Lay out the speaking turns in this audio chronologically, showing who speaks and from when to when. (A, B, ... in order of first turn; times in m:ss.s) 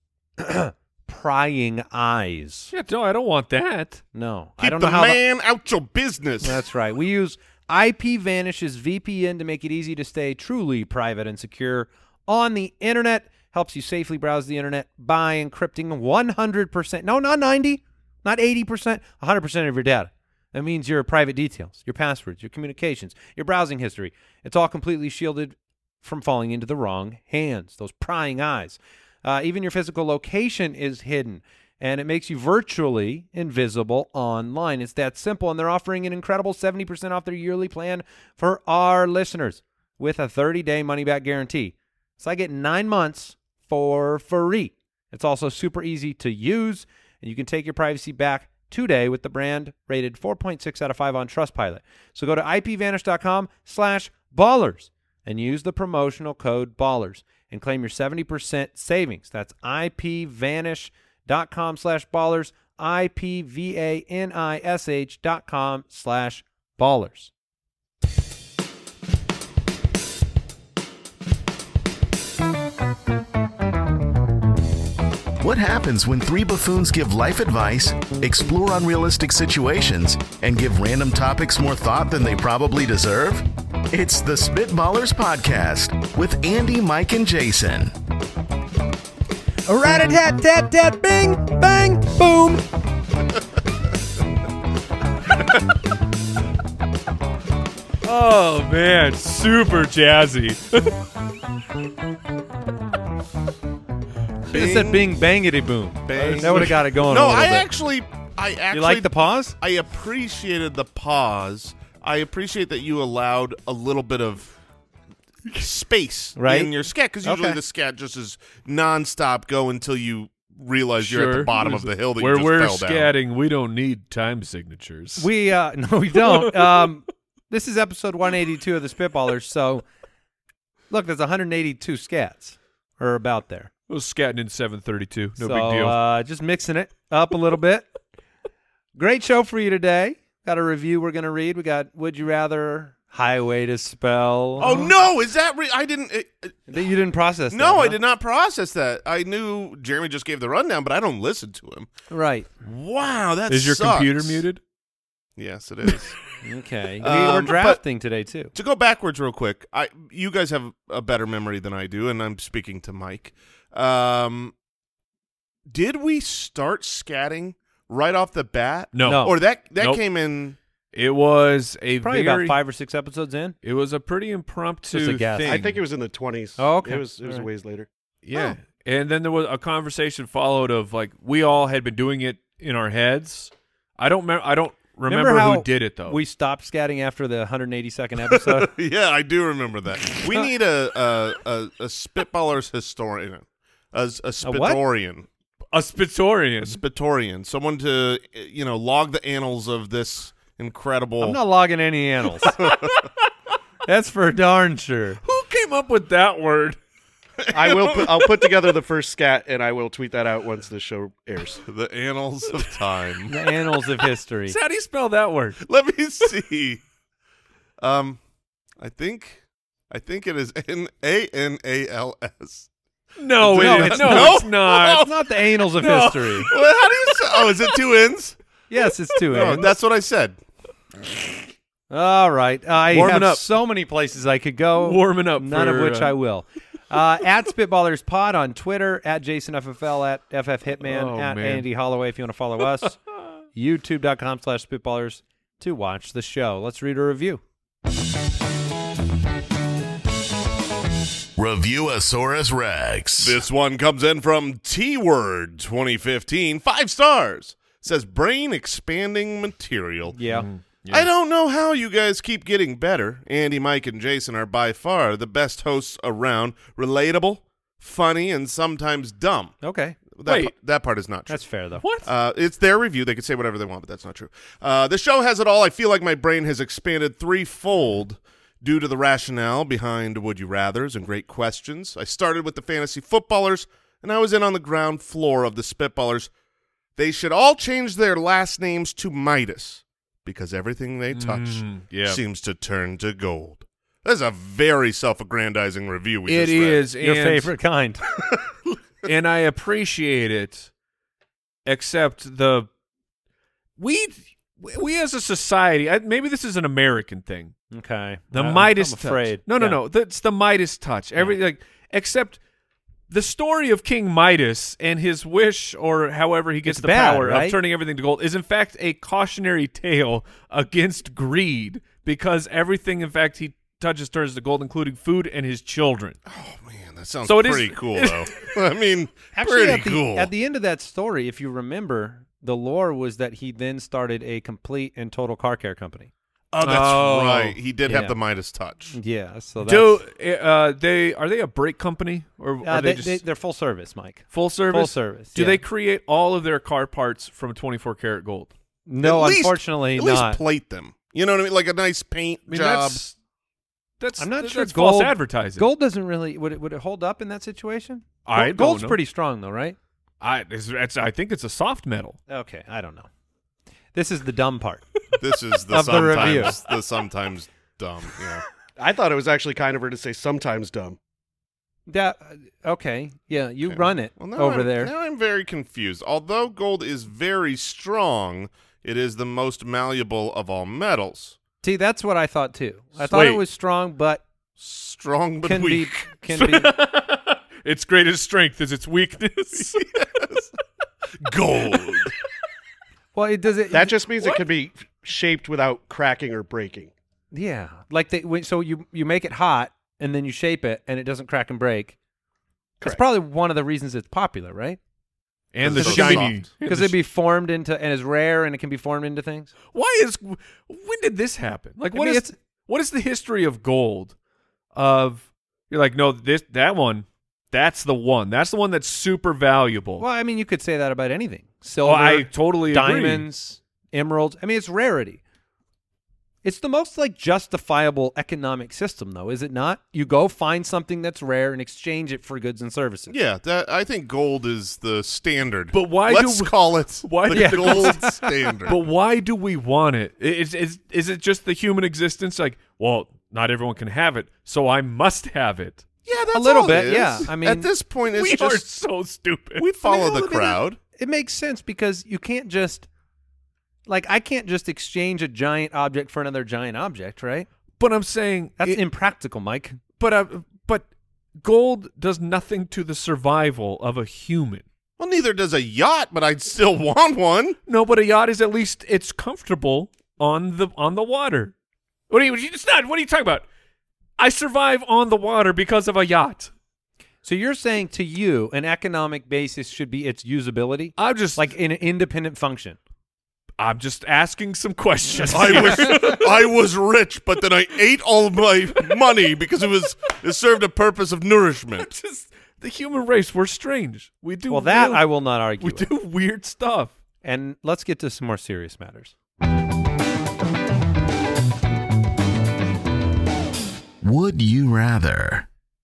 0:00.4-0:02.7 A
0:02.7-0:04.0 B
0:04.1-0:05.2 A
0:04.6-0:06.6 C
0:06.4-1:07.3 A
1:15.4-1:27.9 D
1:29.7-1:32.6 A
1:38.0-1:41.0 B
1:44.5-1:47.7 A
1:44.5-1:45.2 C
1:46.1-1:54.5 C
1:48.7-1:49.5 A
1:55.5-2:03.1 C
1:56.4-1:57.6 A
2:01.0-2:05.3 B
2:05.2-2:09.8 A
2:06.2-2:06.9 B
2:10.9-2:13.7 A
2:13.9-2:16.0 B
2:15.4-2:17.9 A
2:19.0-2:24.7 A
2:24.6-2:26.7 C
2:24.6-2:24.9 B
2:26.7-2:28.0 A
2:27.5-2:31.9 C
2:32.1-2:32.5 A
2:32.6-2:34.4 C
2:33.5-2:34.6 B
2:35.4-2:36.2 C
2:36.4-2:38.5 A
2:37.0-2:37.8 C
2:38.5-2:44.5 C
2:45.7-2:50.6 C
2:48.9-2:50.0 B
2:49.0-2:49.3 A
2:50.9-2:52.6 B
2:52.0-2:53.6 A
2:53.6-2:55.8 B
2:54.9-2:55.7 A
2:55.4-2:57.9 E
2:56.6-2:57.5 A
2:58.2-3:06.2 B
3:05.0-3:08.7 A
3:08.3-3:15.3 C
3:14.4-3:14.8 A
3:15.7-3:16.8 B
3:16.6-3:21.4 C
3:21.2-3:22.6 A
3:22.4-3:23.0 C
3:23.8-3:25.2 A
3:25.2-3:26.8 B
3:27.4-3:28.6 C
3:27.5-3:31.6 E
3:31.6-3:33.3 C
3:33.3-3:34.6 A
3:34.5-3:35.6 B
3:35.6-3:36.8 C
3:37.8-3:38.2 C
3:38.8-3:42.7 C
3:43.2-3:45.1 B
3:43.4-3:46.5 A
3:43.5-3:45.1 C
3:45.8-3:46.6 B
3:46.5-3:48.4 C
3:48.7-3:49.7 A
3:49.3-3:50.4 C
3:51.9-4:03.0 A
3:52.9-3:53.5 B
3:54.8-3:56.1 B
4:00.8-4:01.6 B
4:03.5-4:07.4 A
4:11.4-4:13.4 D
4:13.2-4:20.2 C
4:20.1-4:20.5 A
4:20.3-4:21.1 B
4:20.9-4:29.5 C
4:29.6-4:30.0 A
4:30.1-4:31.4 C
4:30.2-4:30.5 B
4:31.3-4:31.8 A
4:31.8-4:32.1 B
4:32.0-4:46.3 C
4:47.0-4:56.8 C
4:51.1-4:52.2 B
4:56.3-4:57.5 B
4:57.0-4:58.0 A
4:59.0-5:00.7 B
5:01.6-5:02.7 B
5:03.8-5:07.5 B
5:07.7-5:09.8 A
5:08.3-5:12.4 B
5:13.1-5:26.2 B
5:16.6-5:17.6 A
5:26.3-5:30.3 C
5:27.2-5:28.3 B
5:29.3-5:36.1 A
5:36.5-5:38.9 C
5:36.6-5:37.6 B
5:37.8-5:38.2 A
5:38.9-5:40.0 A
5:39.6-5:43.2 B
5:42.6-5:45.6 A
5:44.3-5:48.5 B
5:48.9-5:50.4 A
5:49.0-5:53.0 C
5:52.5-5:53.1 B
5:54.0-5:55.6 B
5:54.2-5:59.8 A
5:58.2-5:59.0 B
6:00.2-6:02.2 B
6:02.3-6:03.1 A
6:03.9-6:04.8 A
6:05.1-6:08.4 C
6:05.7-6:06.6 A
6:08.8-6:11.0 E
6:11.9-6:14.9 A
6:13.6-6:21.4 C
6:21.6-6:24.2 A
6:23.0-6:23.4 B
6:24.6-6:26.1 C
6:25.4-6:26.7 A
6:26.3-6:29.9 B
6:29.7-6:30.4 C
6:31.2-6:32.1 C
6:33.1-6:34.4 A
6:33.7-6:36.9 E
6:37.3-6:42.0 A
6:42.8-6:44.8 A
6:45.5-6:47.0 B
6:45.6-6:46.4 C
6:45.7-6:49.5 A
6:49.7-6:54.1 B
6:51.9-6:52.3 A
6:54.7-7:00.0 B
7:00.0-7:05.2 A
7:01.8-7:03.2 B
7:06.4-7:13.1 A
7:13.1-7:18.8 C
7:15.7-7:25.8 B
7:17.3-7:18.2 A
7:26.0-7:28.6 C
7:26.3-7:27.7 A
7:28.1-7:29.7 B
7:29.6-7:30.8 C
7:29.8-7:32.9 A
7:33.8-7:37.5 A
7:37.8-7:38.8 B
7:38.6-7:39.8 A
7:40.0-7:40.8 B
7:41.4-7:44.6 B
7:45.0-7:47.6 C
7:47.7-7:51.5 B
7:52.1-7:53.4 B
7:54.2-7:56.5 B
7:57.2-8:02.8 A
8:01.0-8:01.5 B
8:03.6-8:06.4 B
8:05.2-8:06.2 A
8:05.3-8:11.9 C
8:11.8-8:16.9 B
8:14.5-8:15.9 A
8:17.2-8:19.1 A
8:24.0-8:25.4 D